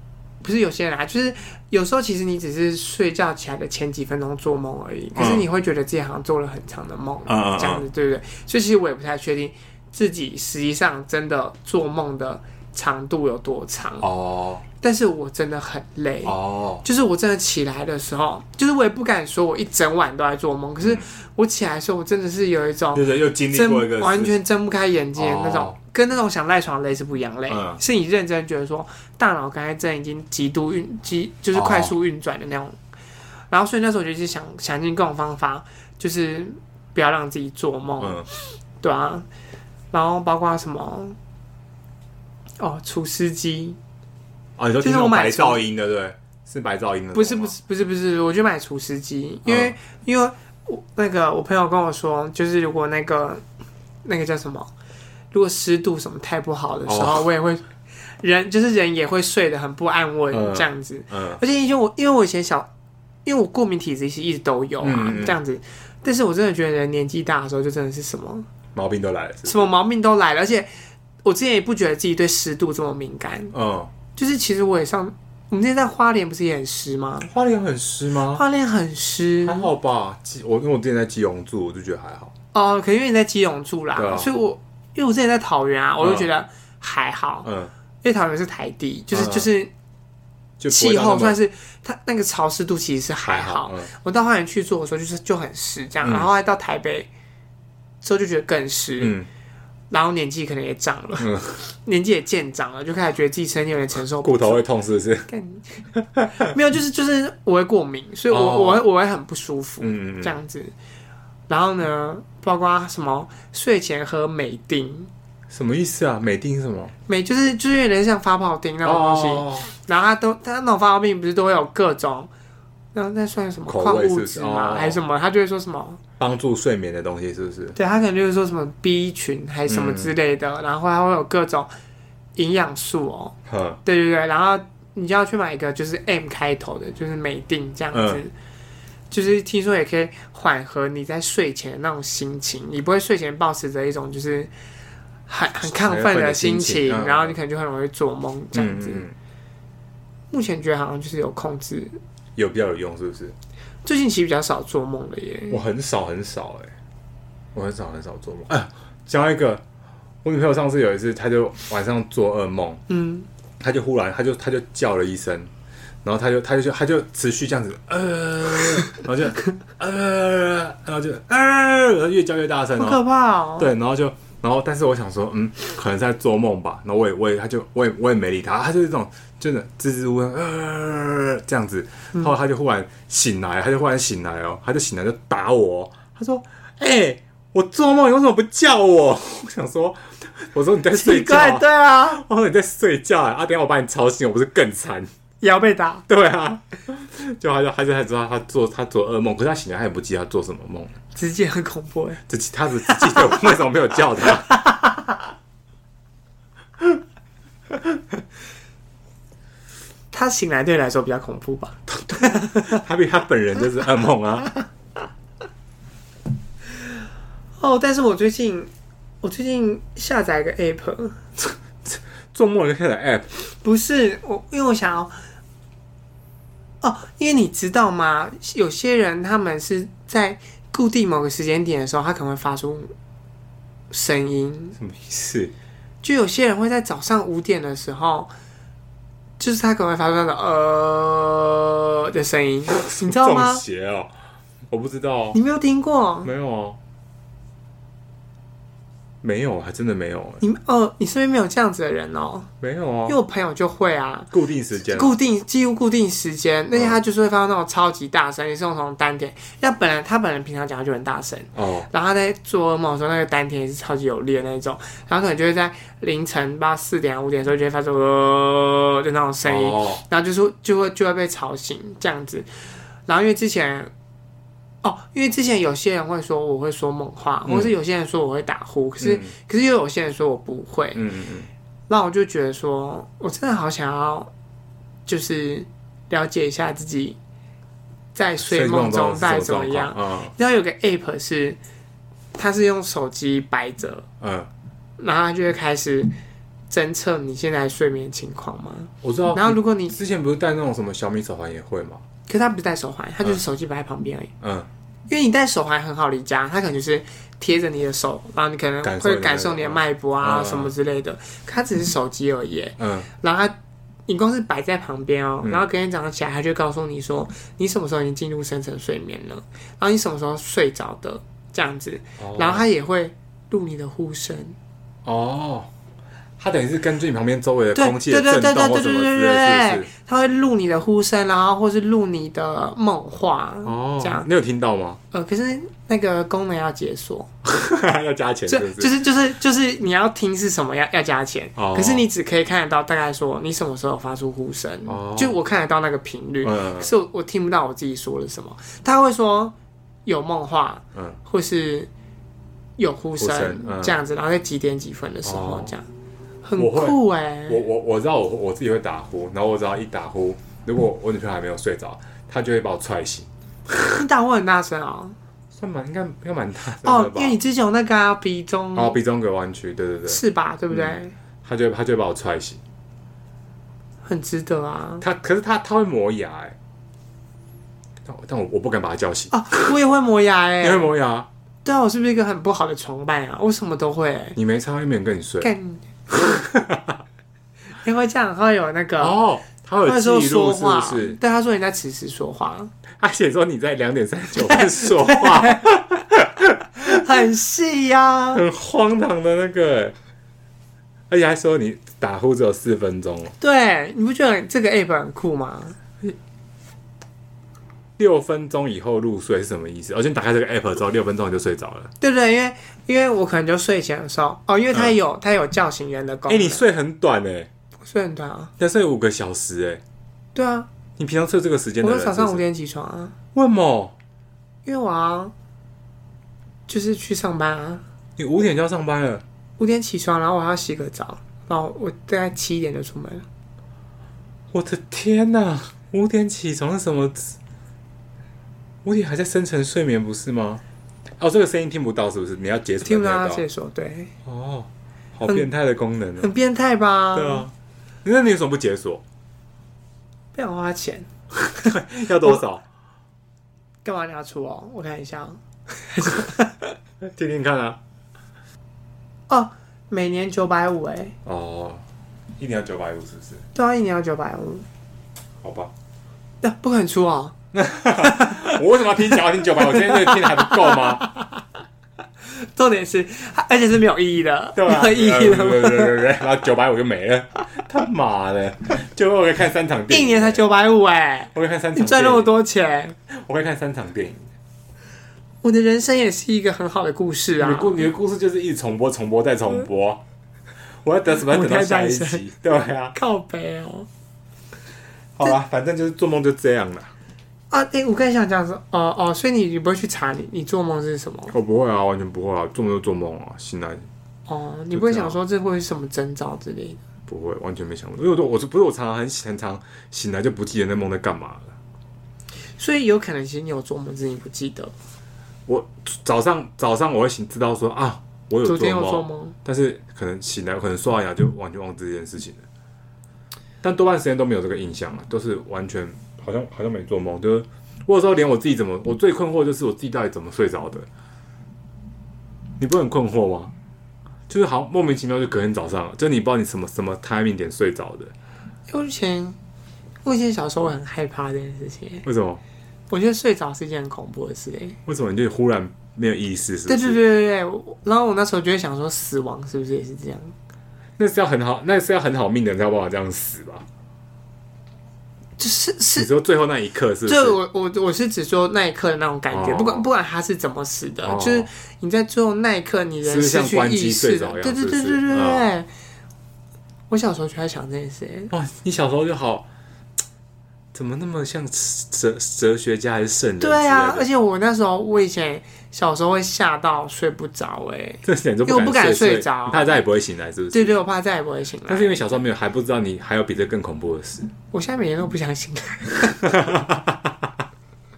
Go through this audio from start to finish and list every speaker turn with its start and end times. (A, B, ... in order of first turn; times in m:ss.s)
0:00.4-0:14.1 A
0:05.2-0:05.5 B
0:07.3-0:07.8 B
0:14.0-0:14.6 B
0:14.8-0:32.8 A
0:16.2-0:16.8 B
0:20.8-0:21.1 B
0:22.9-0:24.4 B
0:25.2-0:25.8 B
0:27.5-0:27.8 B
0:31.5-0:31.9 B
0:33.5-0:38.2 A
0:38.0-0:38.3 B
0:38.8-0:39.3 A
0:39.9-0:41.2 A
0:42.6-0:43.8 A
0:44.6-0:47.5 B
0:44.8-0:45.6 A
0:47.1-0:53.4 A
0:49.4-0:49.8 B
0:54.0-0:54.7 A
0:55.3-0:57.7 A
0:56.9-0:57.2 B
0:58.2-1:02.7 A
1:00.3-1:01.4 B
1:03.2-1:08.5 A
1:04.8-1:05.4 B
1:08.8-1:09.6 B
1:09.5-1:10.7 A
1:11.2-1:13.5 A
1:13.5-1:13.9 B
1:14.2-1:17.3 A
1:17.2-1:18.4 B
1:18.3-1:19.7 A
1:19.4-1:22.3 B
1:22.5-1:27.5 A
1:24.0-1:24.3 B
1:26.0-1:26.3 B
1:27.4-1:27.7 B
1:28.0-1:29.7 A
1:29.1-1:29.5 B
1:30.6-1:31.4 B
1:30.7-1:37.1 A
1:33.2-1:33.9 B
1:36.0-1:36.3 B
1:38.0-1:39.2 A
1:39.0-1:39.3 B
1:39.9-1:44.6 A
1:41.2-1:41.6 B
1:44.2-1:45.3 B
1:45.3-1:50.7 A
1:48.3-1:48.8 B
1:49.8-1:50.4 B
1:51.5-1:55.1 A
1:55.5-1:57.0 B
1:57.1-2:02.3 A
1:58.8-1:59.7 B
2:02.9-2:06.0 A
2:03.7-2:05.0 B
2:06.2-2:07.8 B
2:07.8-2:11.7 A
2:09.7-2:10.1 B
2:12.4-2:18.3 A
2:13.5-2:13.8 B
2:17.9-2:18.2 B
2:19.1-2:24.5 A
2:25.3-2:29.0 A
2:25.6-2:27.4 B
2:28.5-2:29.2 B
2:30.3-2:32.0 A
2:32.4-2:33.4 B
2:33.8-2:35.6 A
2:35.5-2:36.7 B
2:37.5-2:39.6 B
2:40.2-2:42.8 B
2:42.9-2:43.3 A
2:43.6-2:45.5 B
2:46.0-2:53.0 B
2:52.8-2:53.7 A
2:53.6-3:15.1 B
3:10.9-3:12.2 A
3:15.4-3:16.0 A
3:16.1-3:21.0 B
3:21.2-3:22.2 A
3:22.3-3:24.5 B
3:22.9-3:23.3 A
3:24.5-3:25.0 A
3:30.1-3:32.8 A
3:31.9-3:34.6 B
3:37.6-3:38.7 A
3:39.2-3:41.2 A
3:41.8-3:43.3 B
3:43.6-3:45.1 A
3:46.8-3:52.9 A
3:53.9-3:54.8 A
3:54.8-3:55.5 B
3:56.0-3:58.3 A
3:59.4-4:03.6 A
4:02.8-4:04.1 B
4:04.7-4:05.4 B
4:05.3-4:06.3 A
4:06.2-4:06.8 B
4:09.2-4:10.4 B
4:10.4-4:12.5 A
4:12.6-4:13.2 B
4:13.1-4:14.3 A
4:14.3-4:15.2 B
4:14.9-4:32.5 A
4:16.7-4:17.0 B
4:21.6-4:21.9 B
4:29.4-4:30.0 B
4:33.1-4:33.9 A
4:34.8-4:41.0 A
4:37.4-4:37.7 B
4:39.0-4:39.3 B
4:41.0-4:41.5 B
4:41.9-4:44.3 A
4:45.1-4:47.2 A
4:48.2-4:51.6 A
4:48.4-4:50.3 B
4:52.4-4:54.1 A
4:54.2-4:54.5 B
4:55.0-4:56.1 A
4:56.7-5:00.0 A
4:59.0-5:02.0 B
5:02.3-5:04.3 A
5:04.4-5:04.7 B
5:05.1-5:13.6 A
5:08.8-5:10.7 B
5:12.8-5:13.1 B
5:14.1-5:24.6 A
5:15.4-5:15.7 B
5:22.2-5:22.6 B
5:25.0-5:25.7 B
5:26.4-5:29.9 B
5:27.8-5:34.3 A
5:33.6-5:35.0 B
5:35.1-5:37.3 A
5:37.4-5:39.0 B
5:38.5-5:49.5 A
5:41.6-5:42.1 B
5:44.9-5:45.4 B
5:46.4-5:46.9 B
5:50.1-5:51.9 A
5:52.8-5:55.8 A
5:53.2-5:54.0 B
5:55.2-5:55.7 B
5:56.4-5:57.6 A
5:56.6-6:03.3 B
6:03.8-6:05.2 A
6:05.5-6:07.4 B
6:06.8-6:09.0 A
6:08.8-6:12.6 B
6:10.1-6:11.2 A
6:14.0-6:15.0 A
6:15.0-6:16.6 B
6:18.0-6:19.4 B
6:19.3-6:20.9 A
6:20.6-6:21.3 B
6:21.6-6:24.4 A
6:24.4-6:25.5 B
6:25.4-6:25.9 A
6:26.1-6:27.0 B
6:27.8-6:29.2 A
6:29.0-6:31.2 B
6:29.8-6:32.7 A
6:33.0-6:37.0 B
6:34.4-6:35.6 A
6:36.8-6:38.4 A
6:38.3-6:40.0 B
6:41.1-6:43.3 B
6:43.4-6:45.8 A
6:48.0-6:51.9 B
6:52.0-6:56.6 A
6:56.3-6:57.5 B
6:57.8-6:58.5 A
6:58.6-6:59.8 B
7:00.4-7:00.7 A
7:01.0-7:02.4 B
7:01.8-7:03.1 A
7:03.3-7:04.0 B
7:04.6-7:05.3 A
7:06.7-7:07.8 A
7:08.2-7:09.2 B
7:09.6-7:13.2 A
7:14.5-7:17.4 B
7:18.8-7:20.6 B
7:21.2-7:23.4 B
7:22.8-7:24.1 A
7:24.2-7:26.3 B
7:26.2-7:27.5 A
7:27.1-7:27.5 B
7:28.0-7:29.0 B
7:30.3-7:31.1 A
7:31.4-7:32.6 B
7:32.0-7:32.4 A
7:33.8-7:36.8 A
7:37.0-7:37.8 B
7:39.3-7:41.2 A
7:41.2-7:41.8 B
7:42.4-7:43.4 B
7:43.6-7:44.6 A
7:45.4-7:45.7 B
7:46.4-7:47.3 A
7:47.5-7:51.1 B
7:48.0-7:48.6 A
7:49.4-7:51.4 A
7:52.3-7:56.0 A
7:54.6-8:00.4 B
7:59.9-8:03.0 A
8:01.3-8:02.3 B
8:03.1-8:04.3 B
8:05.4-8:07.9 A
8:07.4-8:10.0 B
8:10.8-8:13.0 B
8:11.3-8:12.2 A
8:13.0-8:13.9 A
8:15.2-8:16.9 B
8:17.5-8:21.3 A
8:21.3-8:23.9 B
8:24.3-8:26.8 A
8:24.7-8:25.2 B
8:27.1-8:31.5 B
8:32.6-8:34.7 A
8:35.5-8:42.4 B
8:38.4-8:39.4 A
8:43.6-8:50.9 B
8:52.6-8:53.5 B
8:54.3-8:58.1 B
8:58.7-8:59.4 A
9:00.0-9:02.0 A
9:02.0-9:02.4 B
9:02.9-9:04.8 A
9:04.9-9:07.0 B
9:06.7-9:10.3 A
9:11.0-9:13.7 B
9:15.4-9:16.1 A
9:16.0-9:17.4 B
9:17.1-9:25.7 A
9:19.3-9:19.9 B
9:21.0-9:21.5 B
9:23.0-9:25.5 B
9:26.9-9:28.3 A
9:28.3-9:29.5 B
9:30.7-9:34.1 B
9:33.4-9:39.8 A
9:38.0-9:40.8 B
9:40.5-9:42.0 A
9:41.7-9:44.3 B
9:44.5-9:46.4 A
9:46.3-9:47.1 B